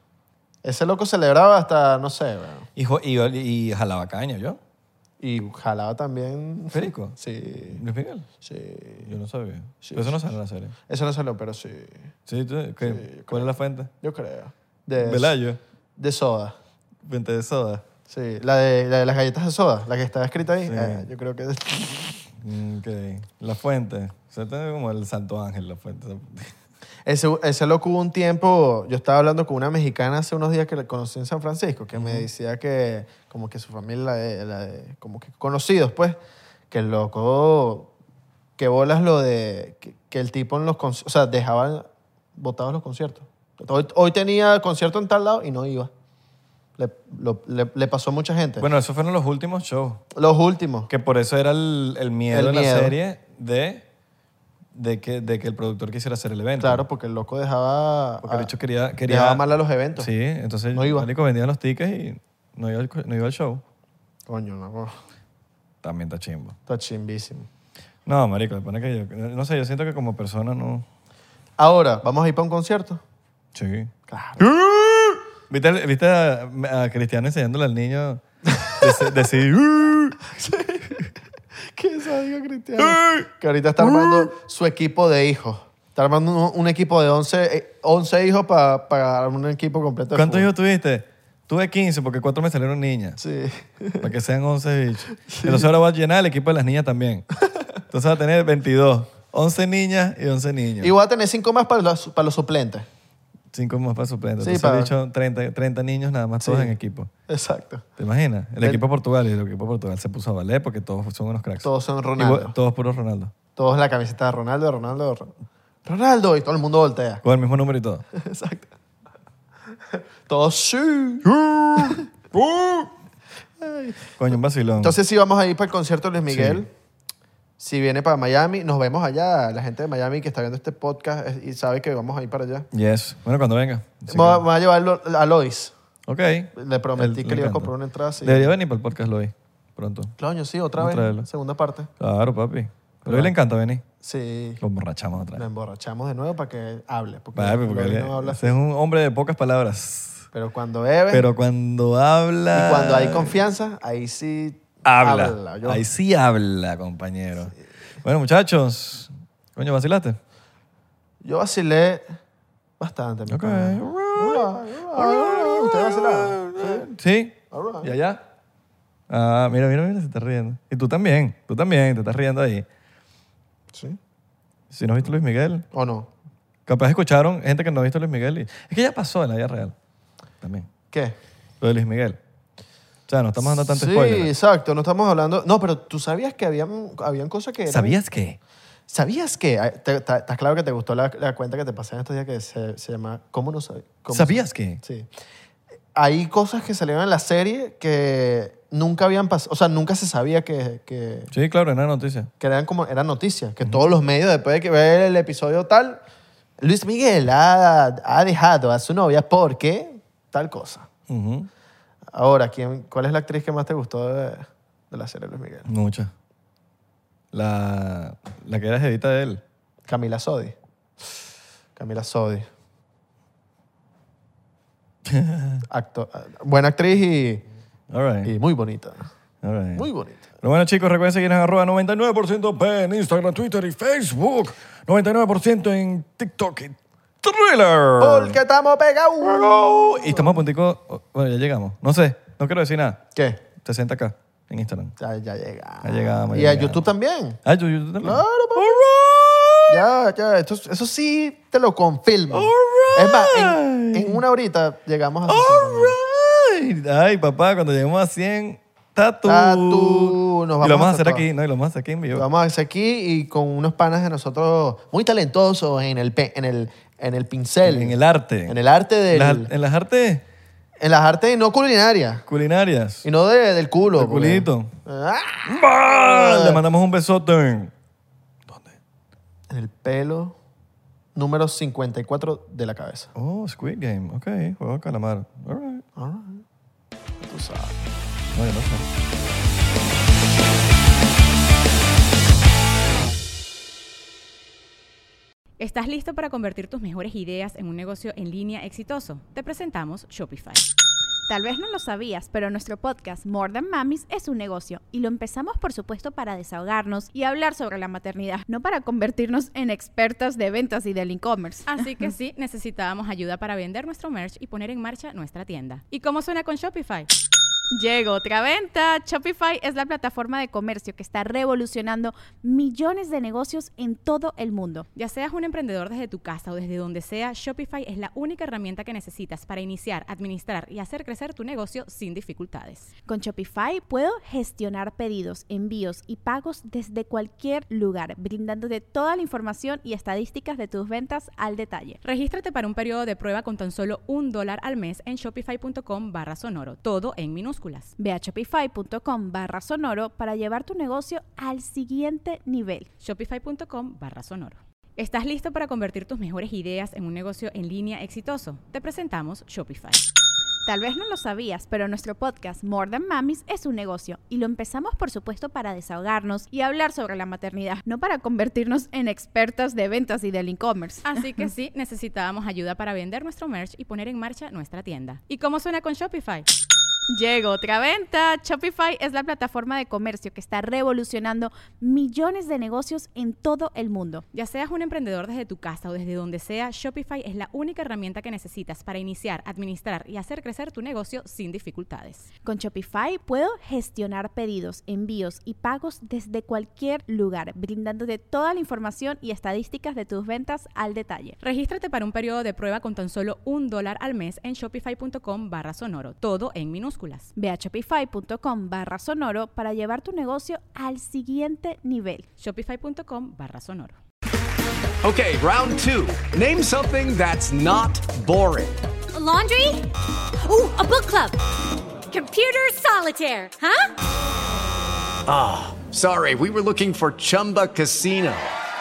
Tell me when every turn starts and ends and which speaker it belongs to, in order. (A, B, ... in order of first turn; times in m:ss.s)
0:00.6-0:02.7 A
0:02.8-0:04.6 B
0:05.2-0:07.8 A
0:06.7-0:07.2 B
0:07.7-0:08.3 B
0:08.4-0:09.1 A
0:09.0-0:10.8 B
0:09.8-0:10.2 A
0:10.9-0:12.1 A
0:12.3-0:13.9 B
0:12.8-0:15.4 A
0:15.0-0:15.6 B
0:16.0-0:16.6 A
0:17.0-0:17.8 B
0:18.1-0:22.2 A
0:20.7-0:21.1 B
0:22.4-0:26.5 B
0:27.0-0:36.2 A
0:32.0-0:32.3 B
0:36.7-0:37.9 A
0:38.6-0:45.9 A
0:46.8-0:48.7 A
0:48.6-0:50.0 B
0:50.1-0:50.9 A
0:50.9-0:53.8 B
0:52.3-0:53.0 A
0:54.8-0:56.8 B
0:56.6-0:58.5 A
0:58.2-0:59.4 B
0:59.1-1:00.1 A
1:00.0-1:03.6 B
1:00.7-1:01.1 A
1:04.3-1:05.0 A
1:05.8-1:06.6 B
1:06.7-1:07.5 A
1:08.1-1:10.9 B
1:11.6-1:13.0 A
1:13.5-1:20.2 B
1:14.1-1:14.5 A
1:18.5-1:19.1 A
1:20.3-1:21.0 A
1:21.7-1:30.5 A
1:22.8-1:23.3 B
1:23.8-1:24.3 B
1:30.1-1:33.2 B
1:33.2-1:34.1 A
1:34.0-1:37.3 B
1:35.2-1:35.7 A
1:37.9-1:40.9 B
1:40.8-1:42.9 A
1:43.5-1:47.1 B
1:44.4-1:44.9 A
1:46.4-1:46.7 A
1:47.3-1:47.8 A
1:48.0-1:53.3 B
1:51.6-1:52.6 A
1:53.6-1:55.3 A
1:55.8-1:57.2 A
1:57.2-1:58.0 B
1:58.1-1:58.7 A
1:59.9-2:02.1 A
2:01.3-2:02.9 B
2:03.6-2:04.1 A
2:04.2-2:05.0 B
2:04.8-2:06.7 A
2:06.3-2:06.7 B
2:07.6-2:12.7 A
2:12.7-2:14.4 B
2:14.1-2:15.7 A
2:16.1-2:20.2 B
2:16.6-2:18.6 A
2:20.2-2:21.9 A
2:20.8-2:21.3 B
2:22.0-2:23.8 B
2:23.0-2:23.3 A
2:24.0-2:24.6 A
2:24.6-2:25.4 B
2:25.4-2:28.6 A
2:27.4-2:30.3 B
2:30.3-2:31.3 A
2:31.1-2:33.4 B
2:32.5-2:35.8 A
2:34.8-2:40.2 B
2:41.2-2:42.2 A
2:42.8-2:46.9 A
2:43.3-2:48.2 B
2:47.5-2:47.9 A
2:49.1-2:52.7 B
2:53.7-2:54.0 A
2:54.7-2:55.7 B
2:55.7-2:56.1 A
2:56.7-2:59.8 B
3:00.4-3:00.7 B
3:00.9-3:01.2 A
3:01.6-3:02.2 B
3:03.1-3:04.3 B
3:03.5-3:08.0 A
3:07.7-3:08.4 B
3:08.9-3:15.1 A
3:14.1-3:14.8 B
3:15.9-3:21.3 A
3:21.3-3:22.3 B
3:22.4-3:26.0 A
3:26.6-3:30.9 A
3:31.1-3:31.5 B
3:32.1-3:35.7 A
3:35.7-3:36.1 B
3:37.3-3:39.4 B
3:39.9-3:40.6 A
3:41.8-3:42.5 A
3:45.0-3:45.7 B
3:45.7-3:47.4 A
3:47.9-3:48.3 B
3:48.2-3:49.1 A
3:49.4-3:49.9 B
3:49.8-3:50.2 A
3:50.4-3:58.4 B
3:58.0-4:00.4 A
3:59.2-4:04.9 B
4:03.2-4:03.4 A
4:05.0-4:07.4 A
4:05.8-4:06.9 B
4:07.4-4:09.8 B
4:08.0-4:08.8 A
4:09.7-4:16.0 A
4:12.3-4:14.2 B
4:15.3-4:22.3 B
4:19.2-4:21.3 A
4:22.1-4:28.0 A
4:27.6-4:28.6 B
4:28.5-4:29.5 A
4:29.1-4:30.2 B
4:30.8-4:32.2 A
4:32.3-4:33.1 B
4:33.0-4:36.6 A
4:34.0-4:34.7 B
4:35.5-4:37.7 B
4:38.5-4:38.8 B
4:39.5-4:40.4 A
4:41.2-4:43.1 A
4:43.2-4:45.8 B
4:46.0-4:46.4 A
4:47.2-4:47.9 A
4:48.3-4:48.9 B
4:55.6-5:00.6 C
5:01.3-5:11.8 D
5:11.7-5:17.1 C
5:17.7-5:24.9 D
5:25.0-5:32.9 C
5:33.1-5:42.0 D
5:42.0-5:47.9 C
5:48.0-5:52.9 D
5:53.0-6:00.0 C
6:00.7-6:11.2 D
6:11.0-6:16.5 C
6:17.1-6:24.2 D
6:24.3-6:32.3 C
6:32.4-6:41.4 D
6:41.4-6:47.3 C
6:47.4-6:52.3 D
6:52.4-6:54.0 C
6:55.0-6:58.8 E
6:59.1-6:59.9 F
7:00.4-7:01.4 F
7:02.1-7:03.9 F
7:05.3-7:08.5 E